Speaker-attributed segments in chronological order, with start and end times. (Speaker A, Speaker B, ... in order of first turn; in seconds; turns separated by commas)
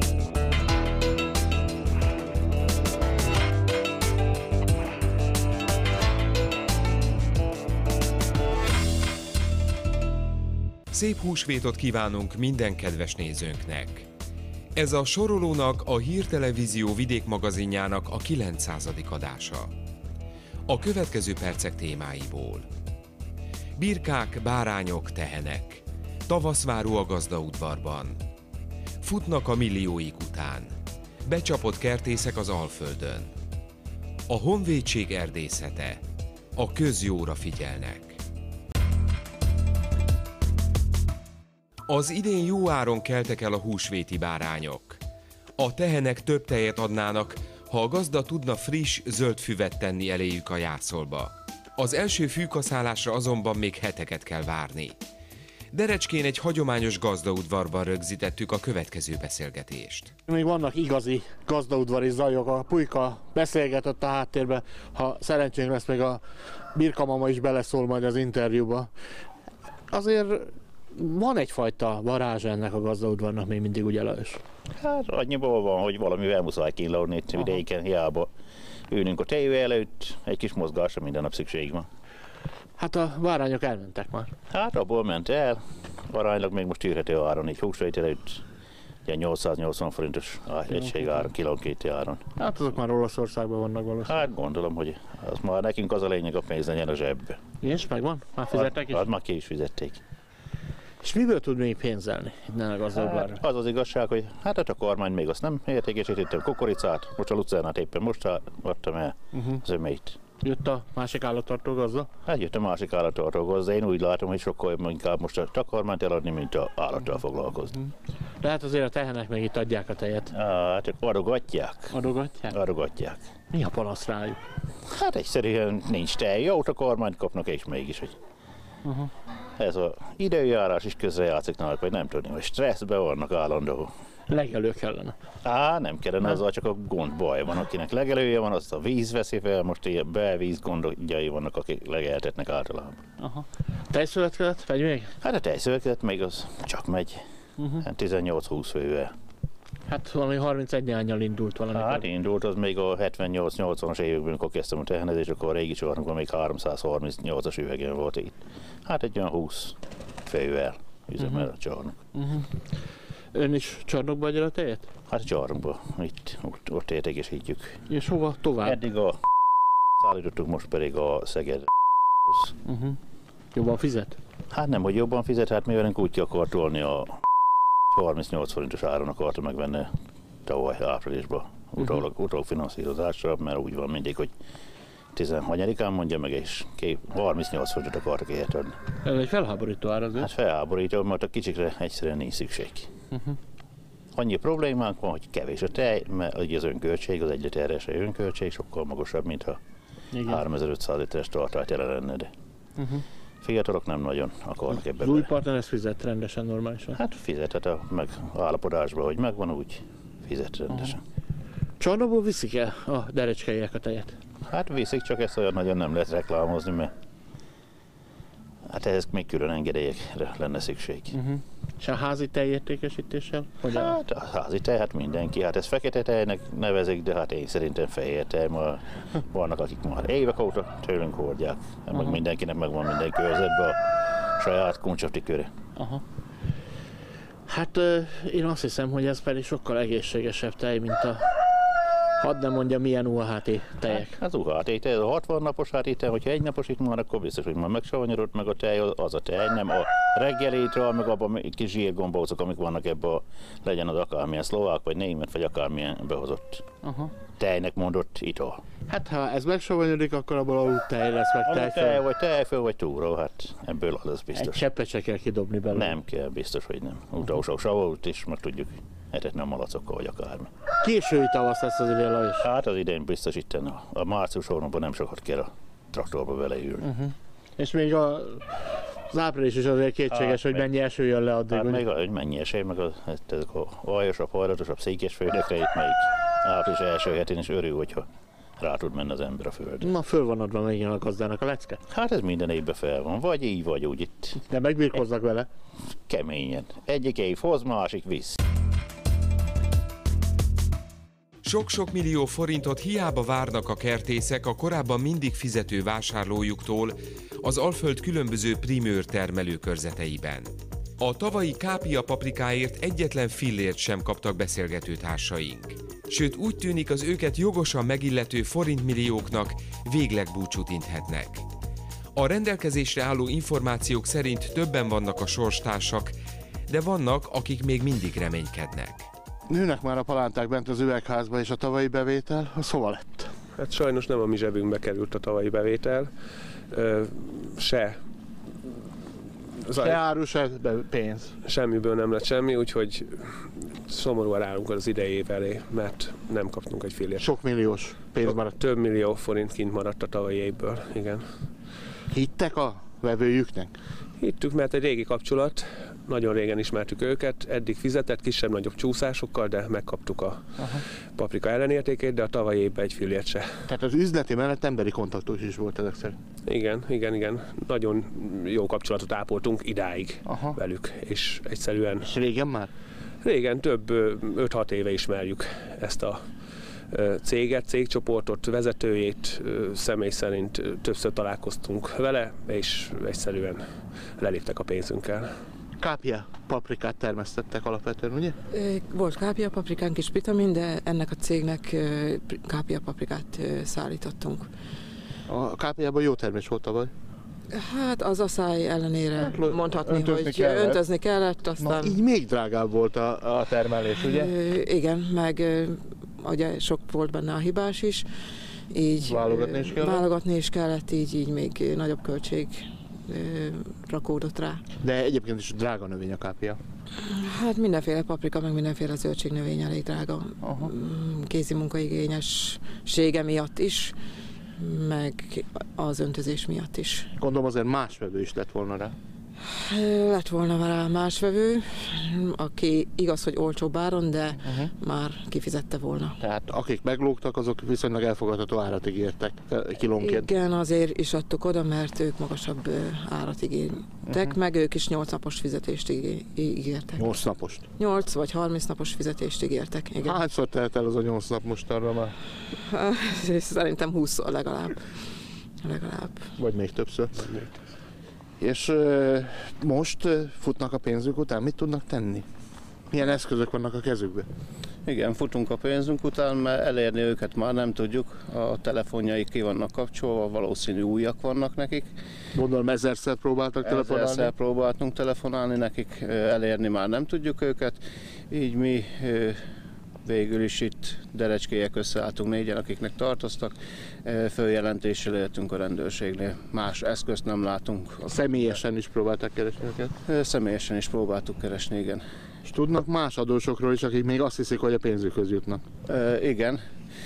Speaker A: 10.9-14.1, Speaker A: 14.8-19.7, Speaker A: 20.7-22.7, Speaker A: 23.8-28.2, Speaker A: 29.0-30.7, Speaker A: 31.2-33.3, Speaker A: 34.3-36.0, Speaker A: 36.6-38.2, Speaker A: 41.9-45.0, Speaker A: 45.6-55.0, Speaker A: 55.7-60.1, Speaker B: 60.3-66.2, Speaker B: 66.8-68.9, Speaker B: 69.9-74.4, Speaker C: 74.8-78.3, Speaker C: 78.9-81.9, Speaker B: 82.8-84.3, Speaker C: 84.5-88.4, Speaker C: 89.1-92.2, Speaker B: 90.7-91.2, Speaker B: 92.4-94.2, Speaker C: 94.0-97.4, Speaker B: 97.6-99.1, Speaker C: 98.5-100.0, Speaker B: 101.0-103.4, Speaker C: 103.0-110.2, Speaker B: 109.3-109.6, Speaker B: 110.4-112.1, Speaker C: 112.3-117.7, Speaker B: 118.4-120.3, Speaker C: 120.3-122.0, Speaker B: 121.9-122.5, Speaker C: 122.5-123.2, Speaker B: 123.5-124.4, Speaker C: 124.9-128.2, Speaker B: 128.8-129.1, Speaker C: 129.6-133.9, Speaker B: 134.3-135.2, Speaker C: 135.4-143.0, Speaker B: 143.2-145.1, Speaker C: 145.2-147.2, Speaker C: 147.8-149.1, Speaker B: 149.9-152.1, Speaker C: 151.7-162.0, Speaker B: 161.2-161.5, Speaker B: 162.1-162.5, Speaker B: 163.3-164.9, Speaker C: 165.1-167.8, Speaker B: 167.9-168.8, Speaker C: 168.6-169.2, Speaker C: 170.0-171.7, Speaker C: 172.3-172.5, Speaker B: 172.7-173.0, Speaker B: 173.5-174.2, Speaker C: 174.5-177.2, Speaker C: 177.9-179.9, Speaker C: 180.4-184.3, Speaker C: 185.2-188.8, Speaker B: 189.0-190.3, Speaker C: 190.2-192.9, Speaker B: 193.1-193.4, Speaker C: 194.1-199.6, Speaker B: 200.1-200.4, Speaker C: 200.2-202.3, Speaker B: 202.8-203.0, Speaker C: 203.4-205.3, Speaker B: 204.7-207.0, Speaker C: 206.9-211.0, Speaker B: 210.7-211.0, Speaker B: 211.8-214.1, Speaker C: 214.5-216.9, Speaker C: 218.7-221.2, Speaker B: 221.1-223.9, Speaker C: 223.7-233.8, Speaker B: 231.9-232.2, Speaker C: 234.3-235.5, Speaker B: 235.8-236.0, Speaker B: 237.5-241.3, Speaker B: 242.2-244.2, Speaker C: 243.9-256.6, Speaker B: 256.8-257.1, Speaker C: 257.4-258.6, Speaker B: 258.9-262.0, Speaker C: 261.4-264.7, Speaker B: 264.4-266.0, Speaker C: 265.7-270.5, Speaker B: 270.8-272.5, Speaker C: 272.4-276.9, Speaker B: 276.8-281.9, Speaker C: 280.1-280.7, Speaker C: 281.5-288.1, Speaker C: 288.6-289.9, Speaker B: 289.8-291.8, Speaker C: 291.9-294.4, Speaker B: 294.5-295.5, Speaker C: 296.1-298.4, Speaker A: 301.4-321.4, Speaker A: 322.1-326.1, Speaker A: 326.7-329.1, Speaker B: 329.5-333.3, Speaker D: 333.6-336.1, Speaker D: 336.7-338.0, Speaker D: 339.6-340.0, Speaker B: 339.7-341.4, Speaker D: 341.4-347.3, Speaker B: 347.2-348.6, Speaker D: 348.2-351.2, Speaker B: 352.1-353.7, Speaker D: 354.2-363.7, Speaker B: 360.6-360.8, Speaker B: 363.7-366.2, Speaker D: 366.5-372.1, Speaker B: 370.3-370.6, Speaker B: 372.0-372.7, Speaker D: 373.2-376.2, Speaker D: 376.9-383.7, Speaker D: 384.2-385.3, Speaker B: 385.8-388.4, Speaker E: 388.5-394.5, Speaker B: 395.3-396.9, Speaker E: 397.5-402.0, Speaker B: 399.2-400.8, Speaker B: 401.6-404.3, Speaker E: 404.0-408.1, Speaker E: 408.7-414.6, Speaker B: 409.1-410.0, Speaker B: 414.8-416.6, Speaker E: 417.0-424.0, Speaker B: 420.4-420.7, Speaker E: 424.6-427.1, Speaker B: 427.2-428.9, Speaker E: 429.5-436.2, Speaker B: 434.4-434.7, Speaker B: 436.2-440.3, Speaker E: 440.0-447.1, Speaker B: 444.1-444.3, Speaker B: 447.0-447.7, Speaker E: 447.8-450.2, Speaker B: 450.0-452.2, Speaker E: 452.7-454.9, Speaker E: 455.6-456.3, Speaker B: 456.4-457.3, Speaker D: 457.2-457.5, Speaker B: 458.4-462.2, Speaker B: 462.9-464.3, Speaker F: 464.9-471.9, Speaker B: 472.3-474.3, Speaker F: 473.6-479.4, Speaker F: 480.0-488.1, Speaker B: 488.1-489.9, Speaker F: 490.1-492.1, Speaker B: 492.4-495.6, Speaker F: 495.9-496.6